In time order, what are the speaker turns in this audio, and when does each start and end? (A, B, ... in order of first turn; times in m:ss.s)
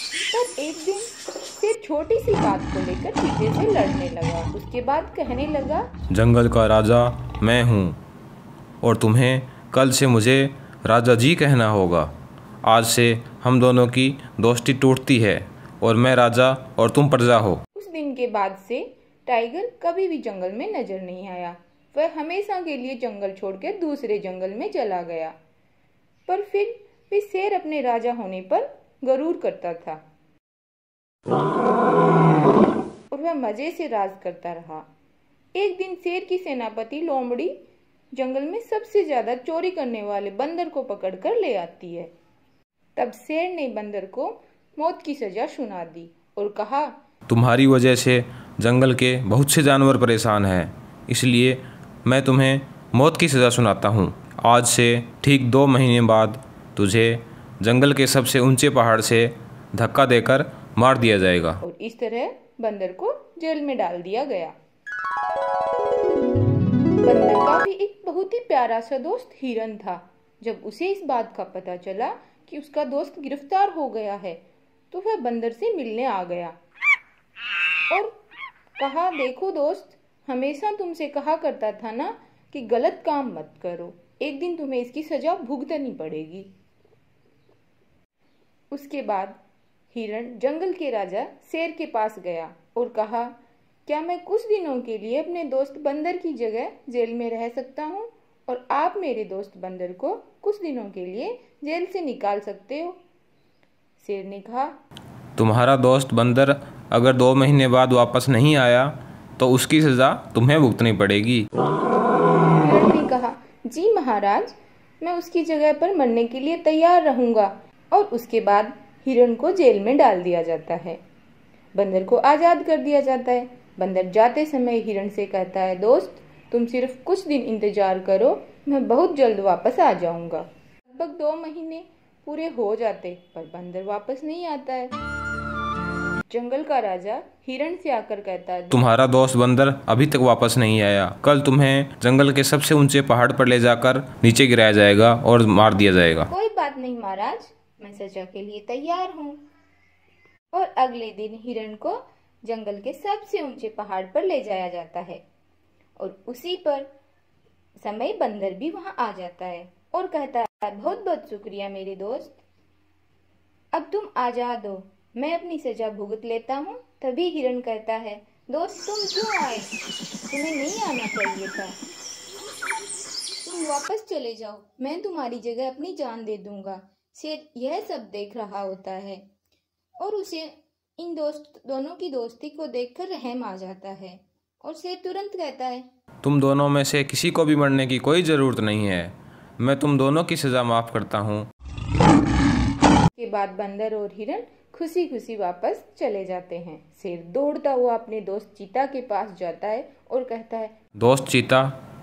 0:00.3-0:05.9 A
0:06.1-0:08.0 B
0:08.8-0:12.1 B
0:12.6-0:17.6 B
0:17.8-0:25.4 A
0:26.3-0:30.0 A
0:33.1-0:34.9 A
0:35.5-0:37.6 A
0:38.1-0:42.1 A
0:43.0-0:46.9 A
0:47.3-1:01.6 B
1:01.6-1:04.5 A
1:07.0-1:14.4 A
1:14.9-1:16.5 A
1:18.8-1:26.5 A
1:28.7-1:29.4 A
1:29.9-1:43.0 A
1:44.0-1:44.7 A
1:45.4-1:51.4 B
1:52.6-2:01.0 A
2:01.7-2:14.9 A
2:16.3-2:18.8 A
2:18.7-2:26.3 B
2:26.3-2:29.4 A
2:30.5-2:35.2 A
2:36.0-2:36.9 A
2:37.8-2:42.4 A
2:43.7-2:49.7 A
2:50.3-2:51.8 A
2:53.4-2:59.2 A
3:00.0-3:05.8 A
3:06.2-3:11.5 B
3:13.2-3:20.7 A
3:21.0-3:21.7 B